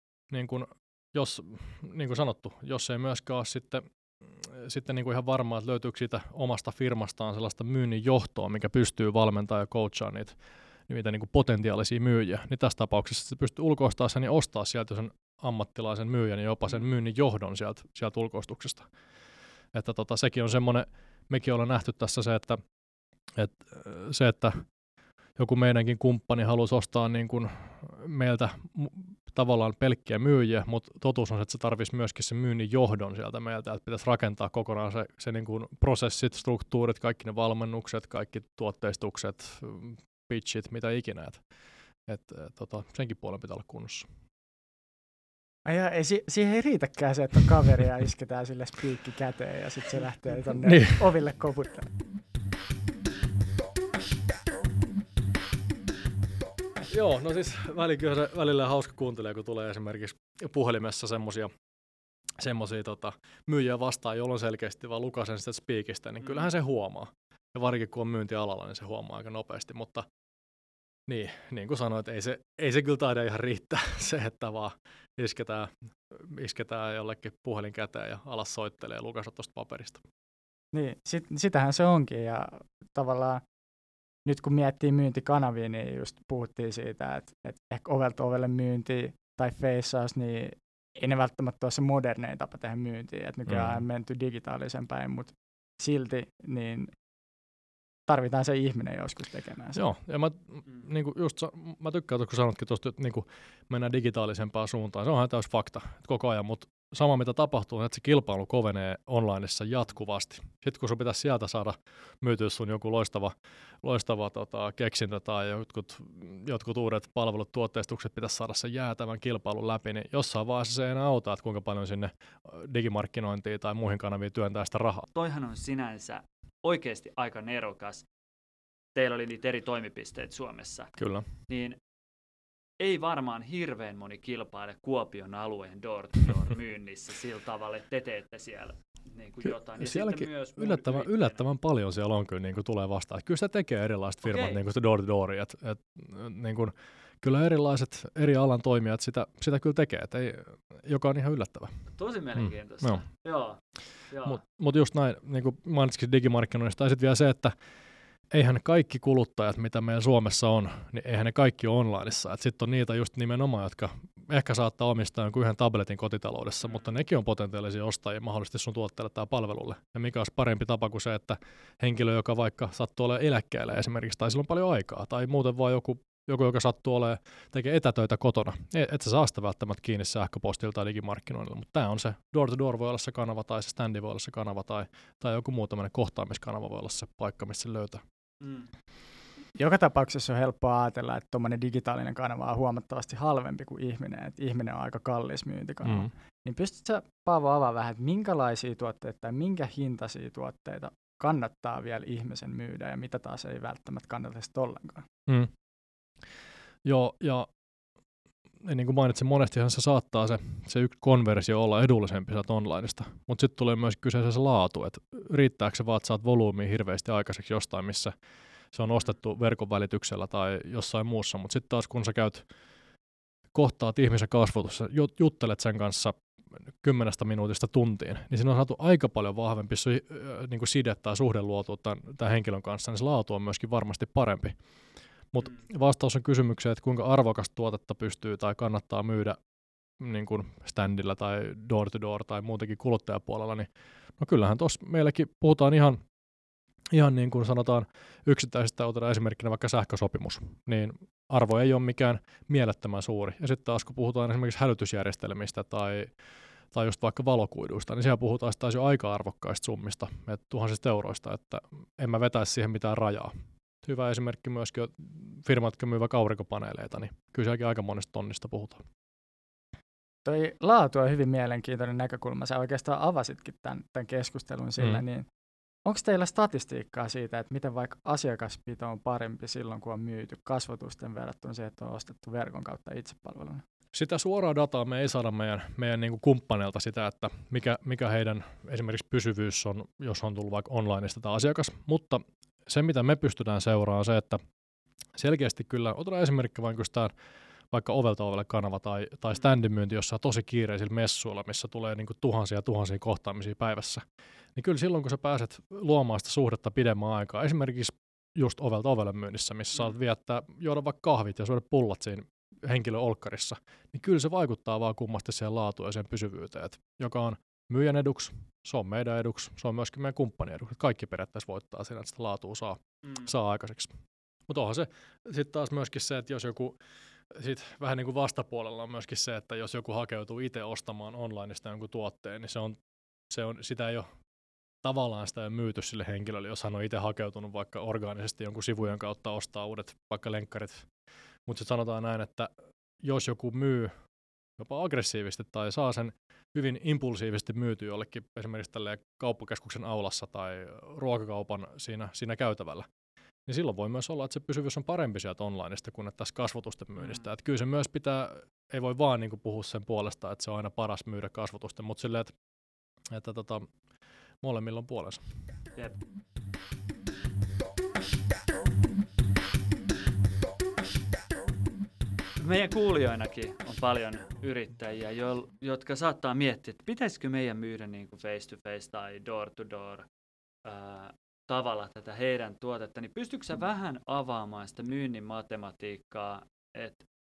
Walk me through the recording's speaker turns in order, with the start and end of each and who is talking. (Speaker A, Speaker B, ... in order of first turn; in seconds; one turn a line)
Speaker A: 0.3-18.9
Speaker A: 19.7-22.6
Speaker A: 23.3-24.6
Speaker A: 25.4-41.4
Speaker A: 42.0-44.1
Speaker B: 45.6-51.9
Speaker A: 50.6-51.0
Speaker A: 56.9-61.5
Speaker A: 62.4-70.1
Speaker C: 66.2-66.5
Speaker A: 71.1-80.0
Speaker B: 80.7-83.4
Speaker B: 84.2-96.9
Speaker A: 93.5-93.8
Speaker B: 98.1-99.8
Speaker A: 99.7-125.0
Speaker C: 125.1-128.1
Speaker C: 128.9-131.8
Speaker A: 131.0-131.3
Speaker C: 132.8-141.4
Speaker A: 139.8-151.8
Speaker C: 144.2-144.6
Speaker C: 151.9-154.4
Speaker A: 152.3-153.1
Speaker A: 154.2-157.6
Speaker A: 158.3-188.0
Speaker C: 166.6-166.9
Speaker C: 188.4-188.7
Speaker B: 189.6-205.1
Speaker A: 195.8-196.1
Speaker A: 206.8-207.5
Speaker A: 208.6-218.1
Speaker A: 218.7-222.5
Speaker A: 223.5-239.4
Speaker C: 235.4-235.7
Speaker A: 240.0-246.0
Speaker A: 246.9-268.8
Speaker B: 270.2-275.3
Speaker A: 274.8-275.0
Speaker B: 275.9-283.6
Speaker A: 283.9-294.4
Speaker A: 295.1-297.1
Speaker A: 297.7-304.0
Speaker A: 304.5-323.9
Speaker C: 323.0-323.3
Speaker A: 324.5-332.8
Speaker A: 333.3-334.1
Speaker A: 334.8-340.9
Speaker A: 341.4-343.9
Speaker A: 344.6-352.9
Speaker A: 353.4-362.3
Speaker C: 357.0-357.3
Speaker A: 363.1-363.8
Speaker A: 364.4-365.2
Speaker C: 365.7-366.0
Speaker C: 372.4-380.1
Speaker C: 380.6-387.1